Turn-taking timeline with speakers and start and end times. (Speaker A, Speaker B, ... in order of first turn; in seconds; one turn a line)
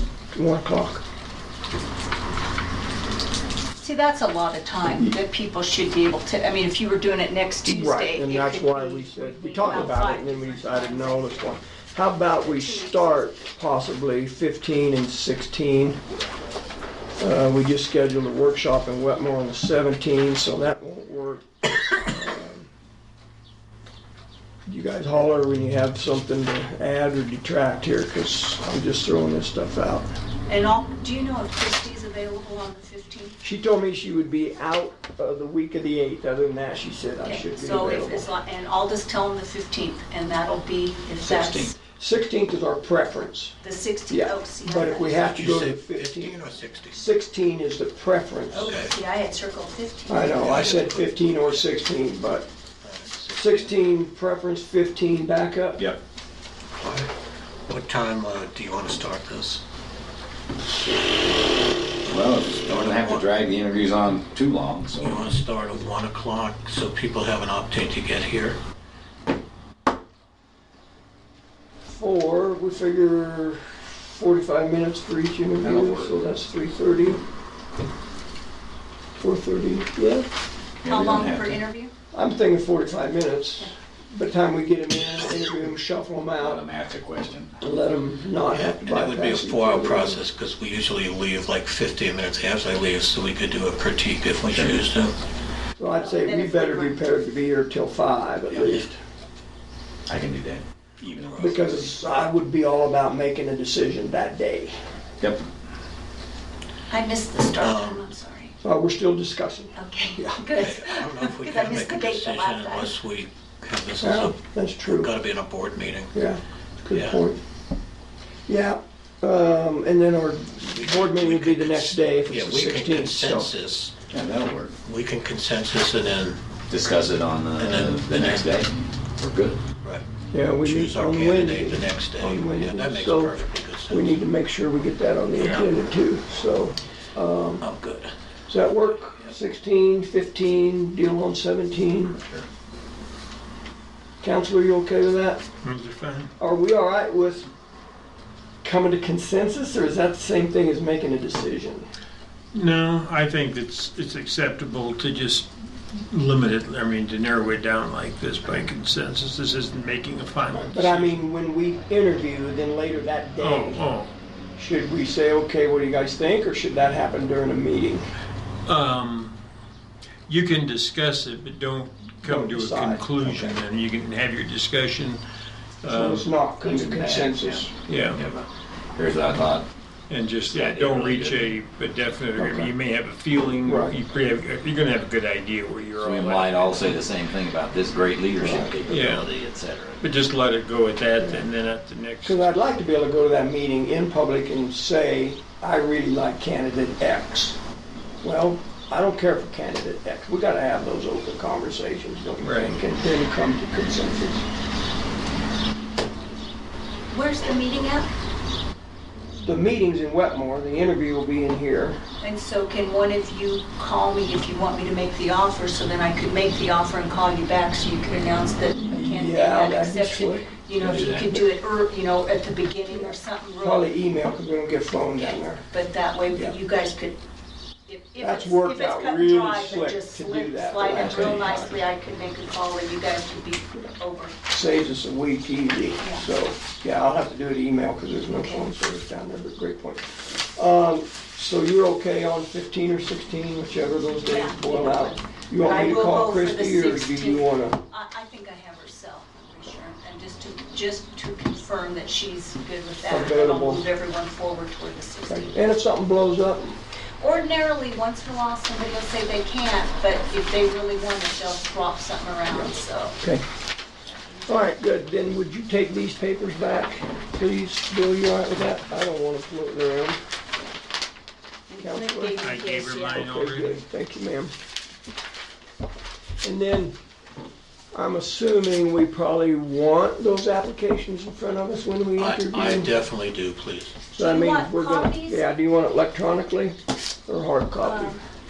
Speaker A: 0.3-1.0
Speaker B: 3.8-11.6
Speaker A: 4.9-5.2
Speaker A: 7.6-16.0
Speaker B: 12.4-13.3
Speaker A: 17.2-22.7
Speaker A: 24.6-30.1
Speaker B: 30.5-33.4
Speaker A: 33.4-38.3
Speaker B: 37.2-41.7
Speaker C: 41.2-41.7
Speaker A: 42.0-43.6
Speaker B: 43.6-45.4
Speaker A: 44.1-48.7
Speaker D: 45.2-47.0
Speaker B: 48.5-50.5
Speaker D: 48.6-48.9
Speaker A: 50.1-52.5
Speaker D: 50.3-51.7
Speaker D: 52.8-53.9
Speaker A: 53.3-55.8
Speaker D: 56.8-57.1
Speaker D: 57.7-59.6
Speaker C: 62.1-65.2
Speaker D: 62.7-63.3
Speaker D: 65.0-68.6
Speaker A: 71.9-77.2
Speaker C: 75.6-76.3
Speaker A: 79.2-80.3
Speaker C: 80.8-81.6
Speaker B: 80.8-81.9
Speaker A: 82.1-86.6
Speaker C: 86.4-87.6
Speaker A: 87.6-90.2
Speaker D: 88.5-95.1
Speaker C: 94.5-94.8
Speaker A: 95.8-99.0
Speaker B: 96.0-97.1
Speaker D: 98.5-98.8
Speaker C: 100.1-101.9
Speaker D: 101.0-101.8
Speaker A: 101.4-104.7
Speaker C: 105.2-105.5
Speaker B: 106.9-108.5
Speaker D: 107.6-108.0
Speaker A: 108.6-110.4
Speaker B: 109.8-113.0
Speaker D: 110.5-116.1
Speaker A: 114.0-115.1
Speaker A: 116.1-117.4
Speaker D: 116.9-117.2
Speaker A: 118.5-123.5
Speaker D: 120.7-123.9
Speaker C: 124.1-124.7
Speaker D: 124.8-126.4
Speaker C: 126.7-129.6
Speaker D: 127.6-128.6
Speaker A: 130.3-133.4
Speaker D: 130.6-134.2
Speaker A: 133.9-137.7
Speaker D: 135.3-135.7
Speaker D: 137.6-138.1
Speaker A: 138.5-142.2
Speaker D: 138.9-139.3
Speaker C: 142.2-142.4
Speaker A: 144.2-145.4
Speaker E: 145.6-146.3
Speaker A: 146.4-147.5
Speaker A: 148.6-151.9
Speaker E: 152.5-161.2
Speaker A: 160.6-163.8
Speaker E: 163.4-164.1
Speaker A: 164.6-168.1
Speaker E: 168.7-169.3
Speaker E: 170.3-175.2
Speaker A: 172.2-173.6
Speaker E: 175.8-176.3
Speaker A: 175.9-177.7
Speaker C: 176.6-179.7
Speaker E: 177.9-178.2
Speaker E: 180.1-187.0
Speaker C: 180.5-181.5
Speaker A: 182.3-182.7
Speaker A: 183.6-184.0
Speaker C: 186.0-190.1
Speaker A: 188.4-188.7
Speaker E: 188.9-189.3
Speaker E: 190.0-192.5
Speaker A: 191.2-191.5
Speaker A: 192.2-197.6
Speaker A: 198.2-204.4
Speaker E: 202.4-202.8
Speaker B: 207.1-208.1
Speaker A: 209.4-212.0
Speaker B: 212.2-223.9
Speaker A: 218.7-220.5
Speaker C: 220.8-221.3
Speaker A: 222.9-225.7
Speaker B: 225.1-227.2
Speaker A: 226.3-226.6
Speaker B: 227.9-234.3
Speaker A: 228.2-231.8
Speaker C: 230.9-231.5
Speaker A: 234.5-247.8
Speaker B: 236.0-236.2
Speaker B: 244.2-255.6
Speaker A: 253.1-253.8
Speaker A: 255.3-256.8
Speaker B: 257.2-263.1
Speaker A: 262.5-263.4
Speaker A: 264.5-270.2
Speaker B: 271.7-273.3
Speaker A: 271.8-272.5
Speaker E: 272.4-273.8
Speaker A: 273.1-274.5
Speaker A: 276.4-276.9
Speaker A: 277.9-282.9
Speaker D: 282.2-284.0
Speaker A: 284.1-286.8
Speaker B: 284.1-285.5
Speaker A: 287.3-288.1
Speaker B: 287.8-288.2